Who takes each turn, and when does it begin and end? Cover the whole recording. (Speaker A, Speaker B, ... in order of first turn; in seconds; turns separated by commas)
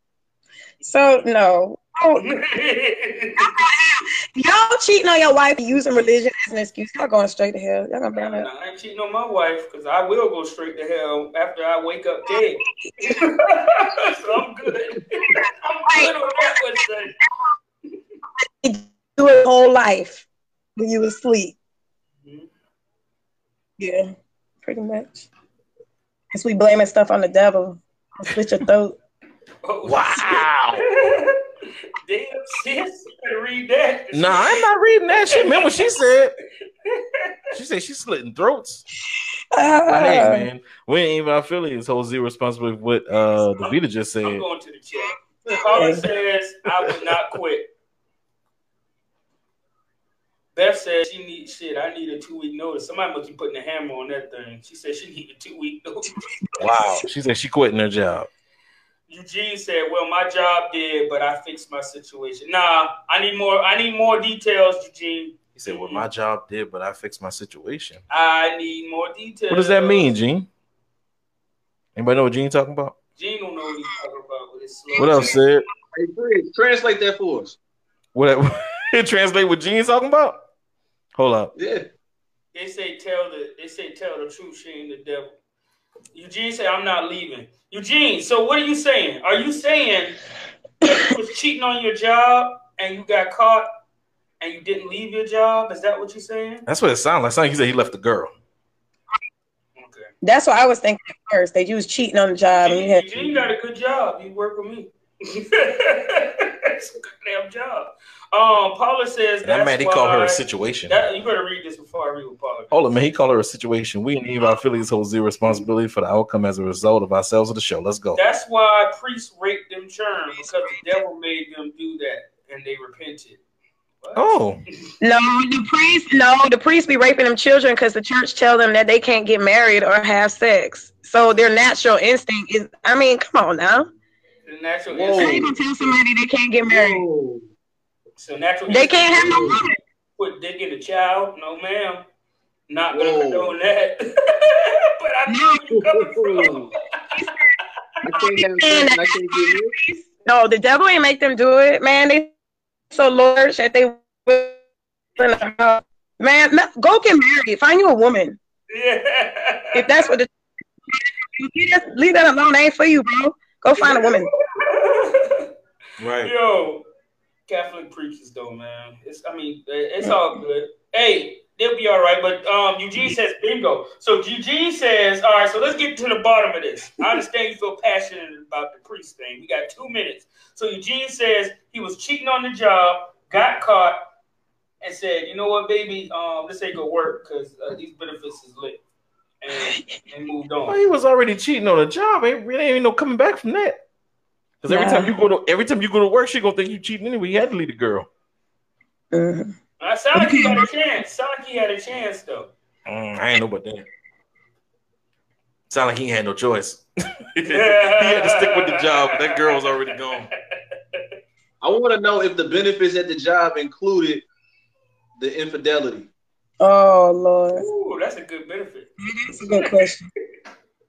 Speaker A: 0.8-1.2, Speaker B: 0.8-2.4, Speaker A: 2.2-3.5, Speaker B: 3.4-8.5, Speaker A: 8.2-17.1, Speaker B: 12.8-13.3, Speaker B: 15.8-16.6, Speaker B: 18.5-20.3, Speaker B: 20.8-21.6, Speaker B: 23.8-24.1, Speaker B: 24.6-25.3, Speaker B: 26.3-29.0, Speaker A: 29.6-31.4, Speaker C: 29.8-30.9, Speaker A: 32.0-34.6, Speaker C: 34.1-36.3, Speaker A: 35.4-35.7, Speaker A: 36.9-37.3, Speaker C: 37.5-38.8, Speaker B: 39.5-40.5, Speaker C: 39.9-44.5, Speaker A: 44.2-47.7, Speaker B: 45.7-46.0, Speaker A: 50.5-56.2, Speaker C: 56.6-58.3, Speaker A: 59.1-66.1, Speaker C: 65.5-68.0, Speaker A: 68.1-70.2, Speaker C: 69.5-70.5, Speaker C: 72.0-73.0, Speaker A: 73.2-75.4, Speaker B: 75.0-75.4, Speaker C: 75.0-75.6, Speaker D: 75.9-77.6, Speaker C: 78.2-80.4, Speaker C: 81.2-81.5, Speaker D: 81.6-81.9, Speaker A: 82.5-85.3, Speaker A: 86.1-90.2, Speaker A: 90.8-93.7, Speaker A: 94.4-96.7, Speaker C: 96.7-98.3, Speaker A: 99.8-100.1, Speaker B: 100.2-103.5, Speaker A: 102.6-112.8, Speaker C: 109.4-111.0, Speaker C: 112.7-118.2, Speaker A: 118.2-123.4, Speaker A: 124.0-124.4, Speaker C: 124.2-124.6, Speaker B: 125.0-133.9, Speaker A: 134.4-135.5, Speaker D: 134.9-135.6, Speaker B: 135.2-137.0, Speaker D: 136.7-137.5, Speaker A: 138.2-139.6, Speaker B: 138.7-139.8, Speaker D: 139.2-139.6, Speaker A: 140.2-142.0, Speaker A: 142.7-146.8, Speaker D: 142.9-143.6, Speaker B: 145.3-145.6, Speaker D: 145.7-146.7, Speaker B: 147.1-147.4, Speaker D: 148.0-149.8, Speaker B: 148.1-152.3, Speaker B: 152.9-154.6, Speaker B: 155.2-158.4, Speaker A: 158.7-160.0, Speaker B: 159.8-160.3, Speaker B: 160.9-164.3, Speaker A: 163.8-165.5, Speaker C: 166.0-166.3, Speaker A: 166.2-166.8, Speaker A: 167.5-184.0, Speaker A: 184.8-188.8, Speaker A: 189.4-190.8, Speaker C: 190.7-193.8, Speaker C: 194.6-198.1, Speaker B: 194.7-195.1, Speaker B: 199.1-199.5, Speaker A: 199.8-202.5, Speaker B: 200.2-200.7, Speaker C: 202.9-203.9, Speaker C: 205.7-210.3, Speaker A: 207.5-210.0, Speaker D: 211.6-214.2, Speaker D: 215.2-216.1, Speaker B: 216.6-217.6, Speaker A: 217.6-218.9, Speaker B: 219.0-220.1, Speaker A: 219.5-219.9